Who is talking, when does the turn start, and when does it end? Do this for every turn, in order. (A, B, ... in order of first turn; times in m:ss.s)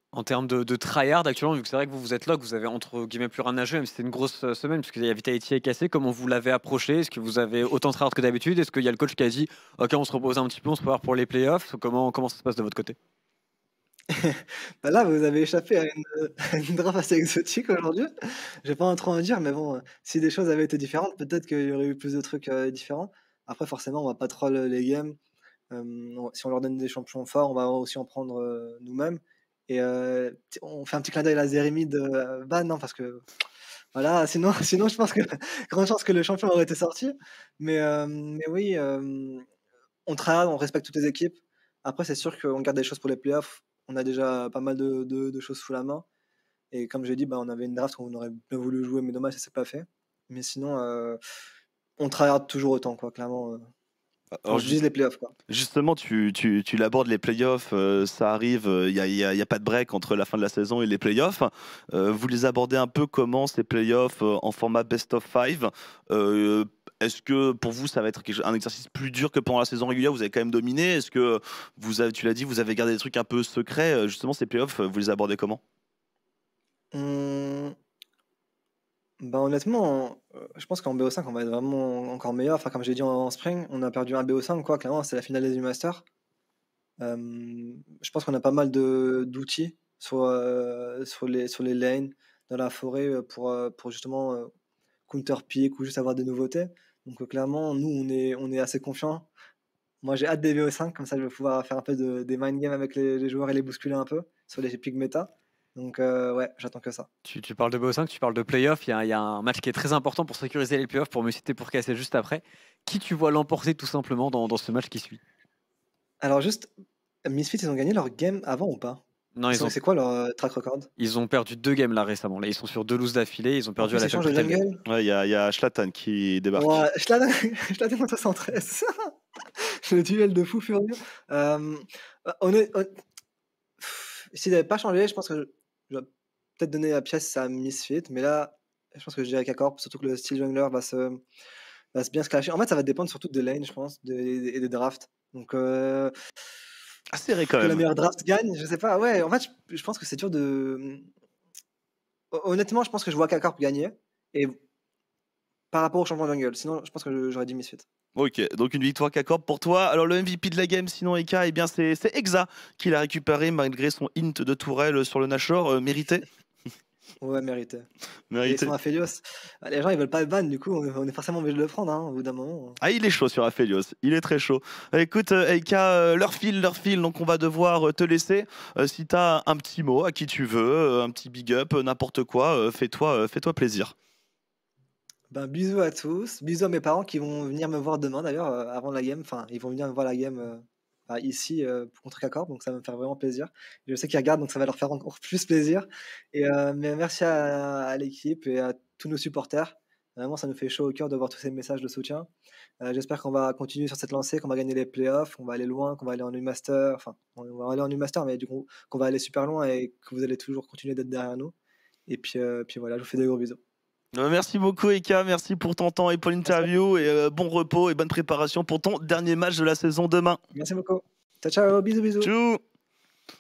0:00.1-0:13.0 A
0:14.1-0:18.1 B
0:18.6-0:25.2 B
0:25.7-0:33.2 B
0:33.9-0:39.4 B
0:40.1-0:46.1 B
0:46.7-0:51.2 B
0:52.0-0:53.7 B
0:54.4-0:54.8 C
0:54.5-0:55.3 B
0:55.5-1:15.6 C
1:16.9-1:17.8 B
1:19.2-1:26.0 B
1:27.0-1:34.5 B
1:35.1-1:39.3 B
1:40.0-1:47.1 B
1:47.2-1:55.2 A
1:56.2-1:56.7 B
1:57.2-2:00.9 B
1:59.4-1:59.8 A
2:01.0-2:04.6 A
2:03.8-2:04.8 B
2:04.9-2:06.8 C
2:06.6-2:09.1 B
2:09.9-2:13.0 B
2:13.8-2:16.1 B
2:16.6-2:21.2 B
2:21.9-2:26.1 B
2:27.1-2:27.9 C
2:27.5-2:31.1 B
2:32.3-2:34.6 B
2:35.7-2:37.8 B
2:38.2-2:46.2 C
2:47.2-2:47.9 B
2:48.3-2:48.7 C
2:48.4-2:52.8 B
2:52.8-3:03.9 C
3:05.3-3:22.3 B
3:22.8-3:31.5 B
3:32.1-3:33.6 B
3:34.1-3:40.4 C
3:36.4-3:36.7 B
3:40.6-3:42.3 B
3:42.2-3:42.6 C